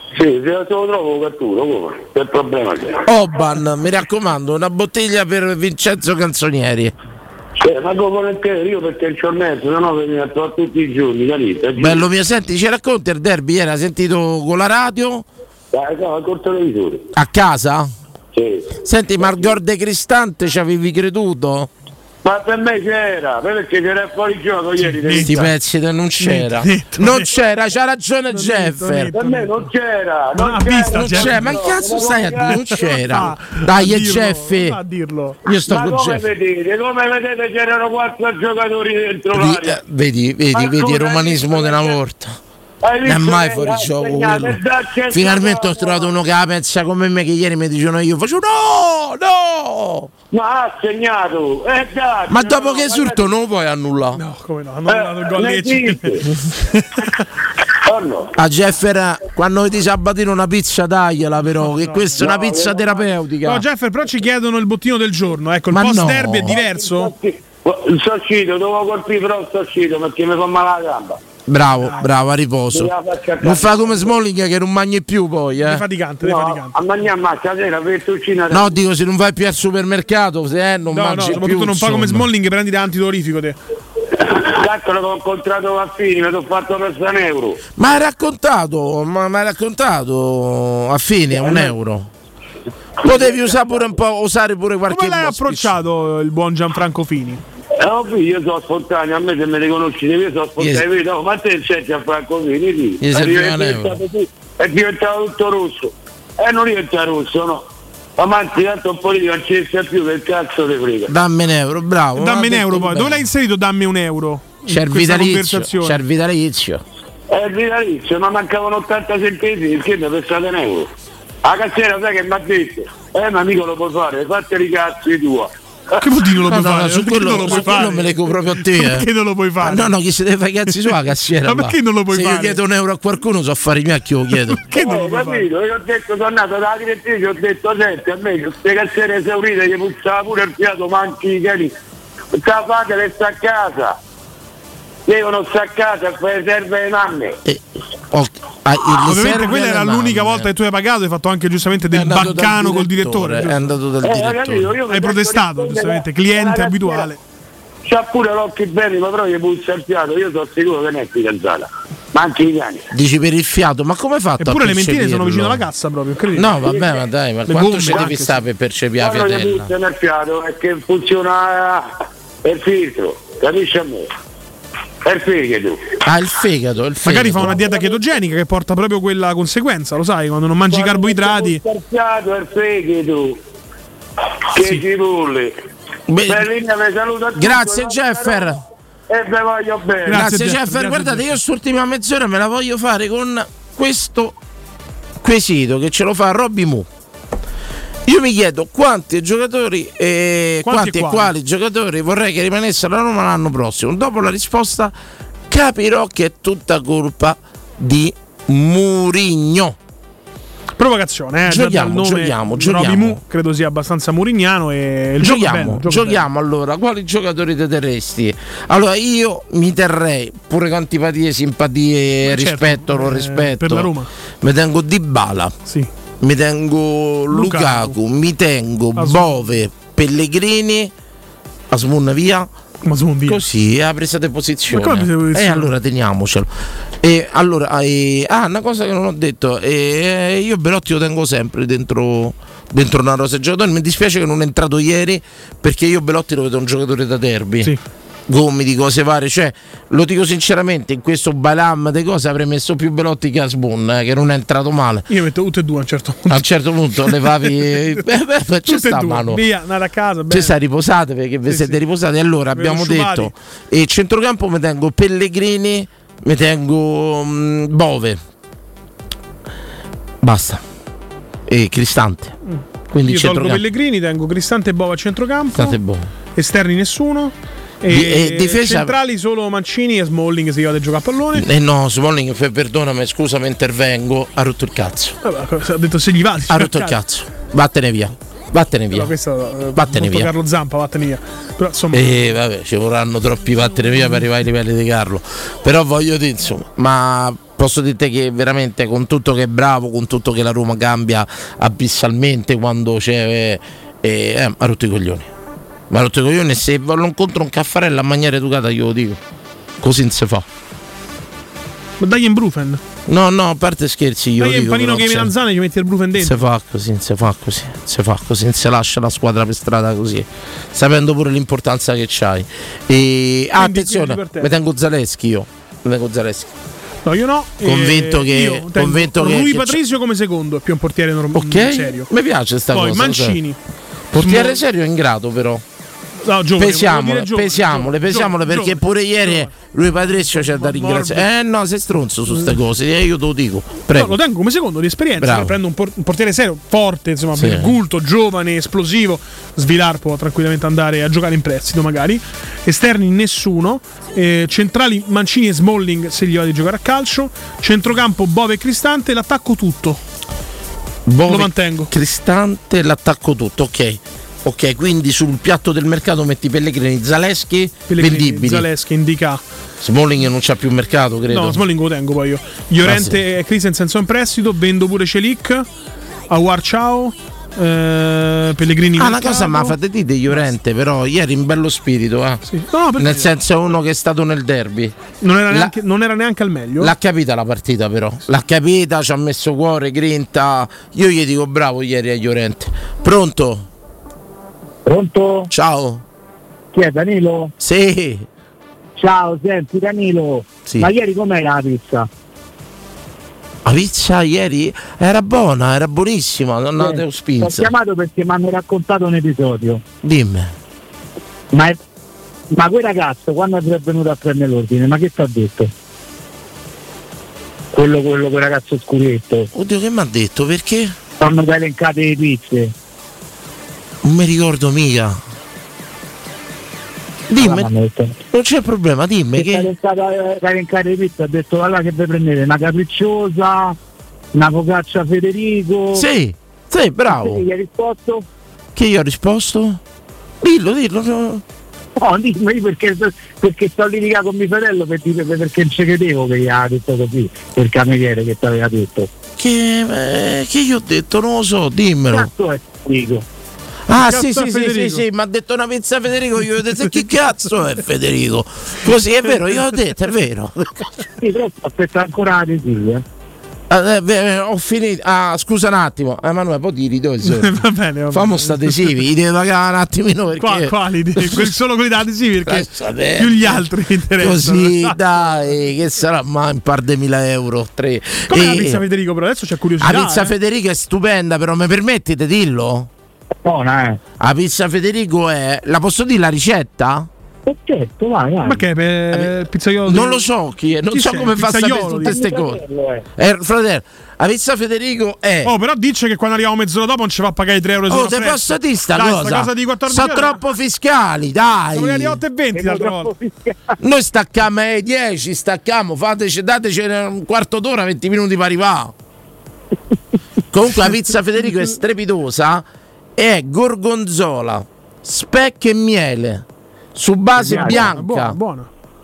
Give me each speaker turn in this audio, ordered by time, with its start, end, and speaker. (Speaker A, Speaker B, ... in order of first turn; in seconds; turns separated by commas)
Speaker A: 0.1-3.0, Speaker B: 3.0-6.9, Speaker A: 7.6-12.0, Speaker B: 11.8-15.2, Speaker A: 15.7-17.0, Speaker B: 17.1-17.9, Speaker A: 18.3-18.6, Speaker B: 18.8-21.7, Speaker A: 22.2-25.5, Speaker C: 24.9-25.5, Speaker B: 25.2-29.1, Speaker C: 26.2-27.4, Speaker C: 28.3-29.6, Speaker A: 29.1-32.6, Speaker C: 30.3-31.7, Speaker B: 30.9-34.8, Speaker C: 32.3-35.4, Speaker B: 35.4-36.3, Speaker A: 35.7-39.8, Speaker B: 39.3-42.4, Speaker A: 40.5-42.0, Speaker A: 42.8-46.1, Speaker B: 43.0-50.1, Speaker A: 50.3-53.3, Speaker B: 52.3-54.2, Speaker C: 54.1-57.1, Speaker A: 54.9-56.2, Speaker A: 57.8-58.3, Speaker B: 58.4-63.6, Speaker C: 61.5-62.3, Speaker A: 62.2-63.0, Speaker C: 63.4-67.1, Speaker B: 65.7-66.5, Speaker A: 66.5-71.2, Speaker B: 71.5-75.8, Speaker C: 71.8-72.1, Speaker A: 72.7-74.1, Speaker C: 75.6-76.8, Speaker A: 76.2-78.7, Speaker B: 78.5-82.3, Speaker C: 80.9-83.6, Speaker A: 84.1-87.6, Speaker B: 87.8-92.1, Speaker B: 93.0-95.7, Speaker A: 93.1-93.6, Speaker C: 94.9-97.4, Speaker A: 97.8-107.6, Speaker B: 100.6-100.8, Speaker B: 103.0-104.0, Speaker A: 108.2-111.1, Speaker B: 111.1-113.2, Speaker C: 112.2-116.0, Speaker B: 114.7-116.8, Speaker A: 117.3-120.9, Speaker A: 121.4-125.5, Speaker C: 126.0-129.9, Speaker B: 126.4-129.1, Speaker B: 129.6-134.6, Speaker C: 131.4-132.6, Speaker C: 134.5-135.5, Speaker A: 134.7-141.7, Speaker A: 142.3-143.9, Speaker A: 145.1-147.3, Speaker B: 147.4-150.5, Speaker C: 149.0-153.7, Speaker B: 151.9-154.7, Speaker A: 154.0-157.1, Speaker C: 154.9-157.2, Speaker A: 157.8-162.8, Speaker B: 162.9-165.6, Speaker C: 164.4-166.6, Speaker B: 166.3-169.7, Speaker A: 166.7-166.9, Speaker C: 167.5-168.4, Speaker A: 169.0-171.9, Speaker A: 172.4-174.1, Speaker A: 175.0-175.8, Speaker B: 176.0-177.7, Speaker C: 177.0-181.6, Speaker A: 177.7-177.9, Speaker A: 180.7-183.4, Speaker A: 184.5-185.5, Speaker B: 186.1-186.5, Speaker A: 186.2-188.5, Speaker B: 187.3-188.6, Speaker A: 189.1-190.2, Speaker C: 190.1-191.4, Speaker B: 190.1-194.3, Speaker B: 195.2-196.9, Speaker B: 198.1-204.9, Speaker C: 200.6-201.3, Speaker B: 205.5-209.8, Speaker C: 210.8-216.2, Speaker B: 211.4-213.2, Speaker B: 215.2-225.5, Speaker C: 222.2-224.1, Speaker B: 226.2-230.9, Speaker C: 227.3-227.9, Speaker C: 228.9-229.5, Speaker B: 231.7-232.5, Speaker C: 232.8-233.4, Speaker B: 233.2-236.5, Speaker C: 234.7-235.7, Speaker B: 237.0-247.7, Speaker B: 248.3-255.0, Speaker C: 255.1-256.5, Speaker B: 256.3-259.4, Speaker C: 257.0-258.1, Speaker C: 258.6-260.5, Speaker B: 260.3-268.2, Speaker C: 261.5-261.8, Speaker C: 262.5-263.3, Speaker B: 270.2-270.6, Speaker B: 271.5-272.3, Speaker C: 272.5-275.7, Speaker B: 272.9-273.6, Speaker B: 275.5-276.1, Speaker C: 276.4-281.4, Speaker B: 277.9-278.9, Speaker B: 281.3-285.2, Speaker C: 285.2-286.9, Speaker B: 286.5-289.1, Speaker C: 288.9-292.3, Speaker B: 289.7-290.3, Speaker B: 291.9-305.3, Speaker B: 305.9-309.2, Speaker B: 309.8-310.4, Speaker C: 312.0-312.8, Speaker B: 313.1-315.3, Speaker C: 314.4-316.4, Speaker B: 316.2-326.5, Speaker C: 323.6-324.5, Speaker C: 327.1-332.1, Speaker B: 327.6-329.8, Speaker B: 331.3-333.4, Speaker C: 332.7-333.6, Speaker B: 334.1-335.6, Speaker C: 334.2-334.6, Speaker C: 336.2-339.5, Speaker B: 336.6-344.2, Speaker C: 340.1-341.2, Speaker C: 343.9-360.0, Speaker B: 345.2-345.5, Speaker B: 347.4-347.8, Speaker B: 361.1-368.7, Speaker C: 361.3-361.9, Speaker C: 367.9-369.4, Speaker B: 369.8-371.6, Speaker C: 371.3-375.6, Speaker B: 372.8-373.2, Speaker C: 376.3-379.7, Speaker B: 378.9-382.4, Speaker C: 382.4-383.3, Speaker B: 382.9-384.9, Speaker C: 385.2-386.9, Speaker B: 385.5-385.7, Speaker B: 386.8-393.6, Speaker D: 394.9-395.5, Speaker B: 395.5-396.0, Speaker D: 396.7-397.5, Speaker B: 397.6-398.3, Speaker D: 399.0-402.1, Speaker B: 403.6-407.7, Speaker D: 406.8-409.8, Speaker B: 410.0-410.5, Speaker D: 412.5-415.7, Speaker D: 417.7-419.5, Speaker B: 419.5-420.9, Speaker D: 421.2-422.7, Speaker B: 424.0-425.2, Speaker B: 427.3-427.7, Speaker D: 427.4-428.2, Speaker B: 428.3-429.7, Speaker D: 429.4-433.8, Speaker D: 434.3-436.1, Speaker B: 435.9-437.4, Speaker D: 437.1-438.2, Speaker B: 438.8-439.8, Speaker B: 440.4-441.4, Speaker D: 442.0-449.1, Speaker B: 449.4-452.3, Speaker D: 452.1-453.2, Speaker B: 453.9-460.7, Speaker C: 453.9-455.0, Speaker D: 461.2-463.0, Speaker B: 463.7-467.6, Speaker C: 467.2-468.9, Speaker B: 468.1-471.5, Speaker C: 470.4-472.7, Speaker B: 472.4-473.6, Speaker C: 473.2-475.0, Speaker B: 474.2-478.8, Speaker C: 478.3-480.3, Speaker B: 479.8-482.9, Speaker D: 483.4-484.0, Speaker B: 484.2-487.1, Speaker D: 487.4-488.6, Speaker C: 488.4-490.2, Speaker B: 489.8-492.6, Speaker C: 490.9-492.1, Speaker D: 491.8-493.0, Speaker B: 493.1-495.5, Speaker C: 495.4-500.4, Speaker B: 497.9-502.2, Speaker C: 501.7-503.1, Speaker D: 502.5-503.8, Speaker B: 503.8-508.9, Speaker B: 510.5-512.6, Speaker B: 513.1-518.4, Speaker D: 517.4-517.9, Speaker C: 517.4-518.7